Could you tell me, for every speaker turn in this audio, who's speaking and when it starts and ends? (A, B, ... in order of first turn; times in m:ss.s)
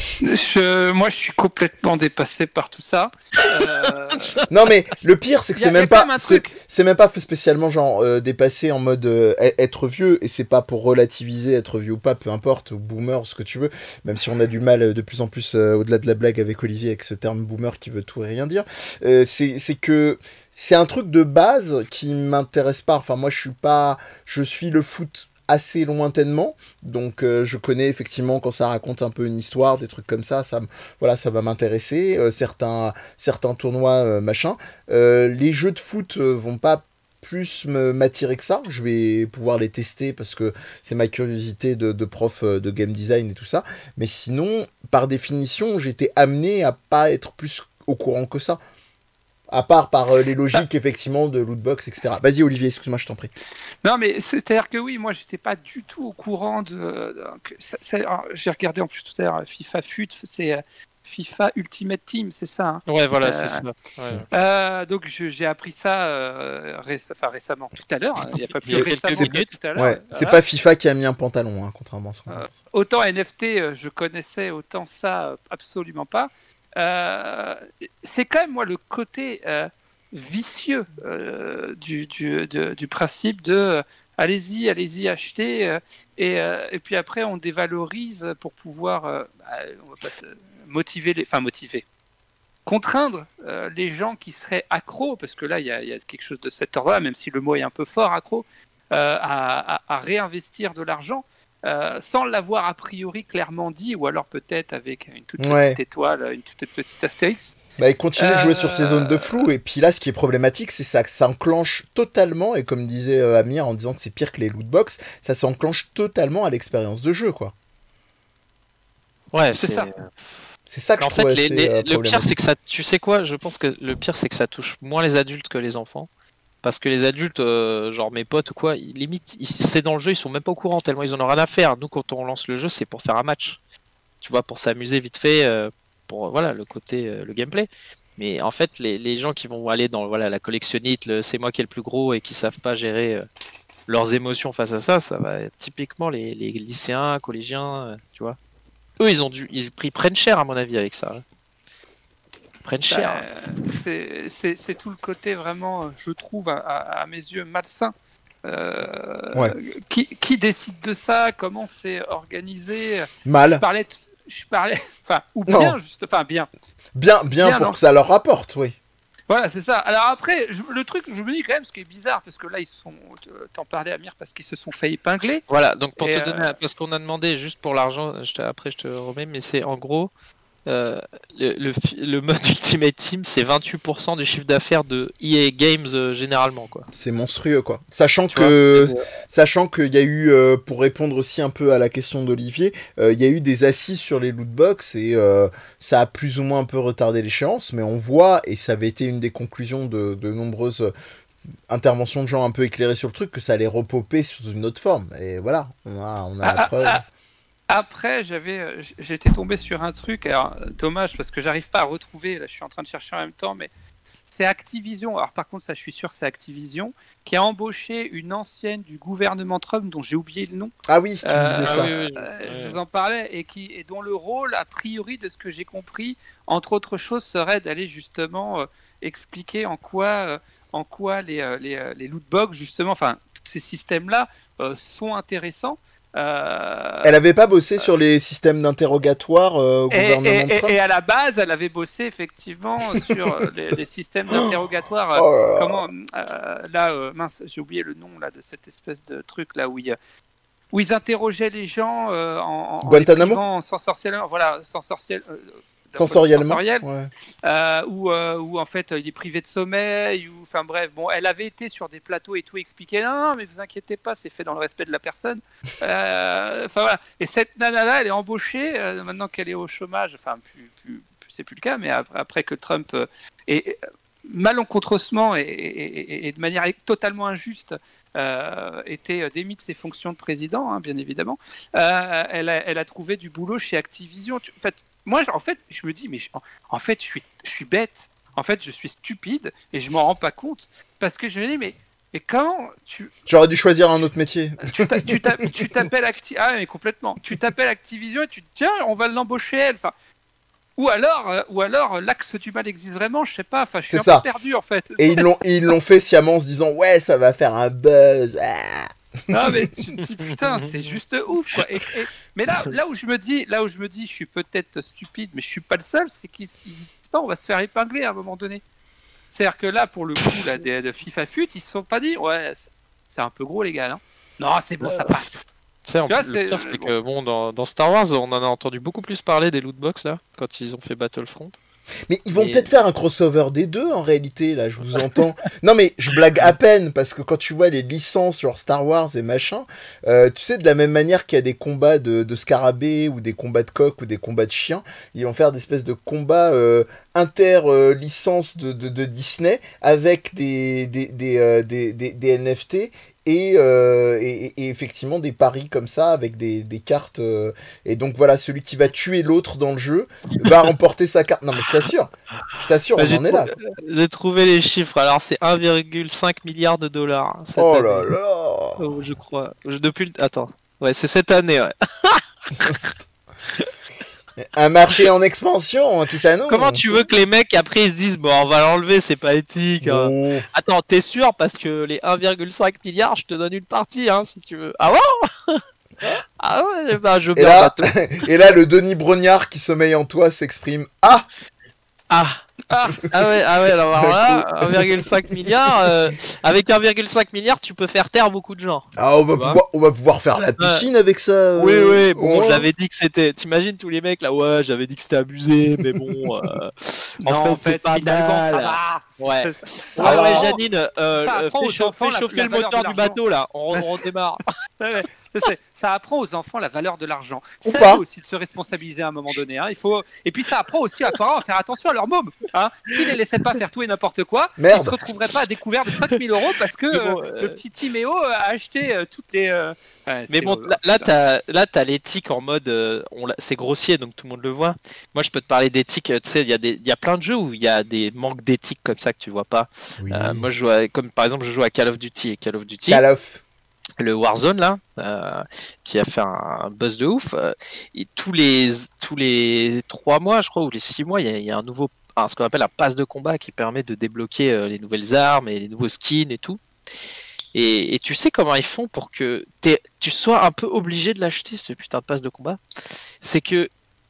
0:00.2-0:04.4 A
0:03.4-0:04.5 B
0:04.5-0:48.6 C
0:05.6-0:06.5 A
0:49.5-0:53.3 C
0:53.8-1:03.6 A
1:02.9-1:04.2 B
1:04.3-1:10.4 A
1:08.3-1:09.5 B
1:08.7-1:12.5 C
1:12.3-1:31.8 A
1:32.6-1:47.6 A
1:45.4-1:45.8 C
1:47.8-1:57.5 C
1:48.2-1:49.5 A
1:59.3-2:00.2 B
1:59.6-1:59.9 A
2:00.7-2:02.3 C
2:01.0-2:06.1 B
2:06.6-2:13.6 B
2:14.2-2:23.2 B
2:23.9-2:28.4 B
2:29.0-2:31.2 B
2:32.6-2:33.2 B
2:32.9-2:37.9 A
2:38.4-2:46.5 A
2:43.2-2:43.6 C
2:45.5-2:45.8 C
2:47.0-2:48.8 C
2:47.4-2:47.8 A
2:49.3-2:55.4 A
2:55.5-3:00.1 B
2:56.0-2:56.5 A
3:00.6-3:06.9 B
3:06.9-3:20.9 C
3:08.3-3:09.0 B
3:21.7-3:27.0 C
3:26.4-3:27.0 A
3:27.7-3:33.7 A
3:34.2-3:40.7 A
3:40.9-3:41.9 C
3:41.2-3:57.2 A
3:41.6-3:42.8 B
3:57.0-4:00.7 C
3:59.9-4:10.0 A
4:04.3-4:04.6 C
4:05.1-4:05.9 C
4:10.7-4:16.8 A
4:12.8-4:13.4 C
4:16.0-4:17.1 C
4:17.4-4:53.1 A
4:53.3-4:55.5 C
4:54.6-4:59.9 A
5:00.8-5:05.4 A
5:03.9-5:04.2 C
5:05.0-5:09.6 C
5:09.3-5:18.6 A
5:10.4-5:11.0 B
5:19.3-5:25.4 A
5:24.8-5:25.2 B
5:25.9-5:31.6 B
5:26.1-5:26.9 A
5:32.1-6:03.6 C
5:32.3-5:32.7 B
6:03.0-6:08.1 B
6:07.6-6:08.8 C
6:08.8-6:12.9 B
6:14.4-6:17.0 C
6:16.5-6:25.6 B
6:19.8-6:20.4 C
6:26.4-6:28.0 B
6:27.4-6:31.3 C
6:32.1-6:32.4 B
6:32.7-6:33.1 A
6:33.0-6:39.6 B
6:33.9-6:35.7 C
6:39.0-6:42.7 C
6:40.6-6:40.8 B
6:41.6-6:54.4 B
6:47.2-6:50.6 A
6:50.0-6:50.5 C
6:51.2-6:53.2 A
6:53.7-6:54.0 A
6:54.8-7:11.1 A
6:57.6-6:58.0 C
7:04.6-7:05.0 C
7:06.9-7:07.6 B
7:10.3-7:23.0 B
7:20.0-7:20.5 C
7:22.9-7:23.4 C
7:24.0-7:36.6 B
7:37.5-7:42.6 B
7:43.2-7:43.7 B